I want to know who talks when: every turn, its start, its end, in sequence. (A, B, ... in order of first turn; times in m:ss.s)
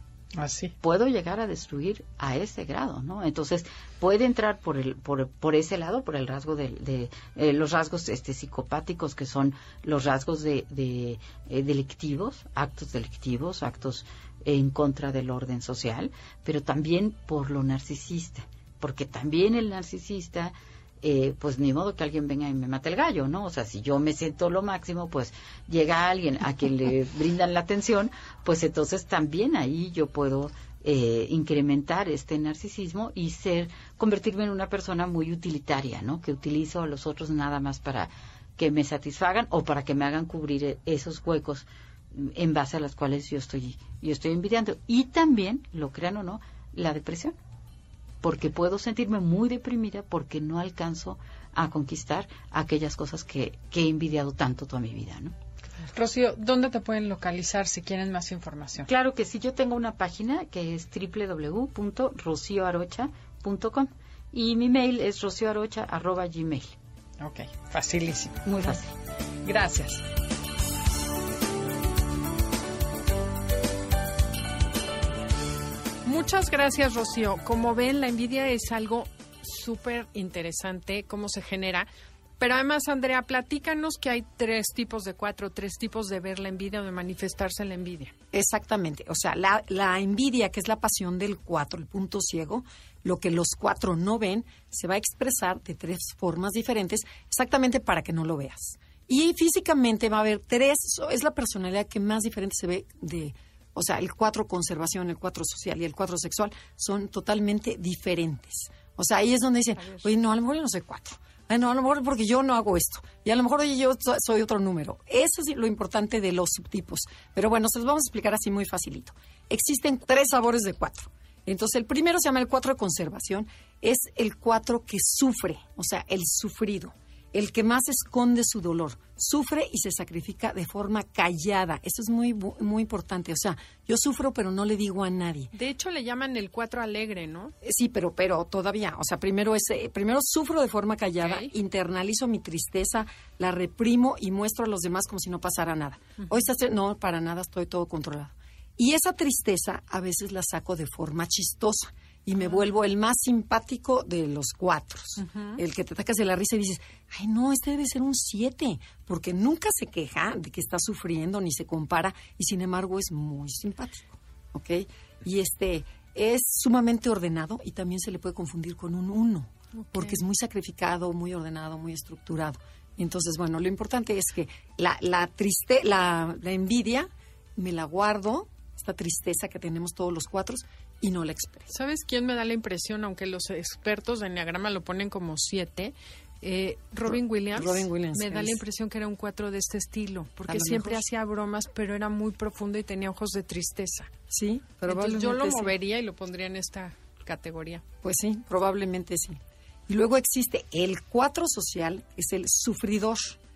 0:00.3-0:00.7 A
0:00.8-0:47.4 B
0:48.2-0:55.4 B
0:55.9-0:58.9 A
0:58.9-1:06.8 B
1:07.2-1:08.8 A
1:08.4-1:08.9 B
1:09.4-1:10.0 A
1:16.0-1:21.9 A
1:22.4-1:28.1 A
1:28.3-2:15.5 C
2:15.5-2:17.5 A
2:17.6-3:01.7 C
2:21.2-2:21.5 A
2:35.2-2:35.6 A
2:49.8-2:50.2 A
3:01.7-3:14.1 A
3:07.1-3:08.6 C
3:10.5-3:11.0 C
3:14.3-3:15.7 C
3:14.9-3:17.8 A
3:18.0-3:23.4 C